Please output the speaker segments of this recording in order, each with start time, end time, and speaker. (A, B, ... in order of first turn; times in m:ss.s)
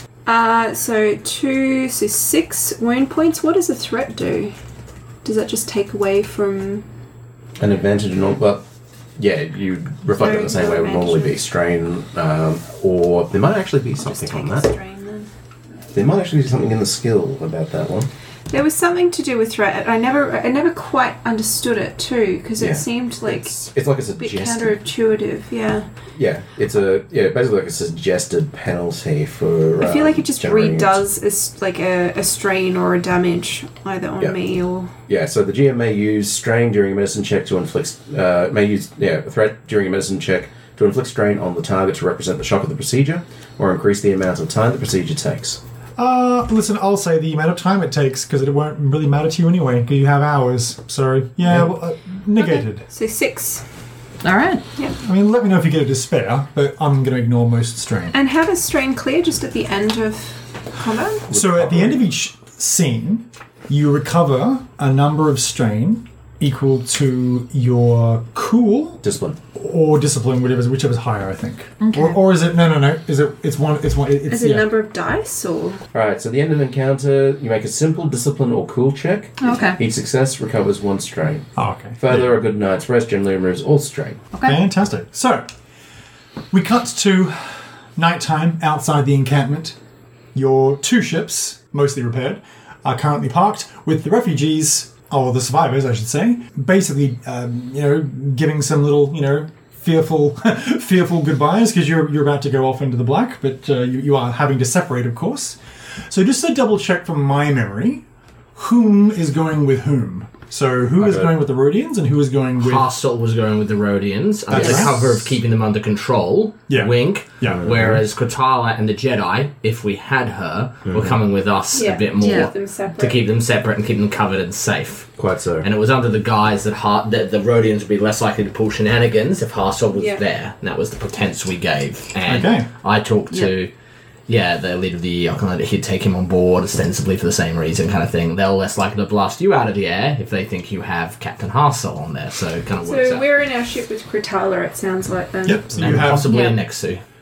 0:00.2-0:04.5 A
0:05.2-0:06.8 A
0:07.6-0:08.6 B
0:09.2-0:14.7 B
0:10.1-0:11.4 A
0:14.0-0:15.3 A
0:15.9-0:18.1 B
0:18.5-0:23.6 A
0:22.6-0:24.8 B
0:24.2-0:25.9 A
0:26.1-0:31.0 B
0:29.8-0:34.9 A
0:35.1-0:45.6 B
0:46.0-0:52.9 C
0:52.4-0:53.6 A
0:54.2-0:54.6 D
0:55.0-0:58.2 C
0:58.1-1:01.3 A
1:01.3-1:02.0 B
1:01.3-1:09.0 C
1:09.0-1:09.4 B
1:09.5-1:14.7 C
1:11.8-1:12.2 D
1:14.3-1:15.8 A
1:15.9-1:21.5 B
1:19.4-1:19.8 D
1:21.6-1:22.3 C
1:22.0-1:24.2 B
1:24.3-1:24.6 D
1:24.4-1:25.4 C
1:26.5-1:29.8 C
1:30.3-1:48.0 C
1:48.6-1:52.9 C
1:51.0-1:51.3 B
1:52.6-2:13.7 E
1:54.5-1:55.2 C
1:56.7-1:57.7 C
1:57.4-1:58.0 B
2:00.9-2:01.2 B
2:01.7-2:03.2 A
2:02.2-2:02.5 D
2:05.2-2:05.7 B
2:09.9-2:10.2 A
2:12.2-2:12.7 C
2:14.3-2:23.3 E
2:22.8-2:25.7 A
2:25.4-2:26.3 C
2:25.7-2:27.0 E
2:26.2-2:26.6 D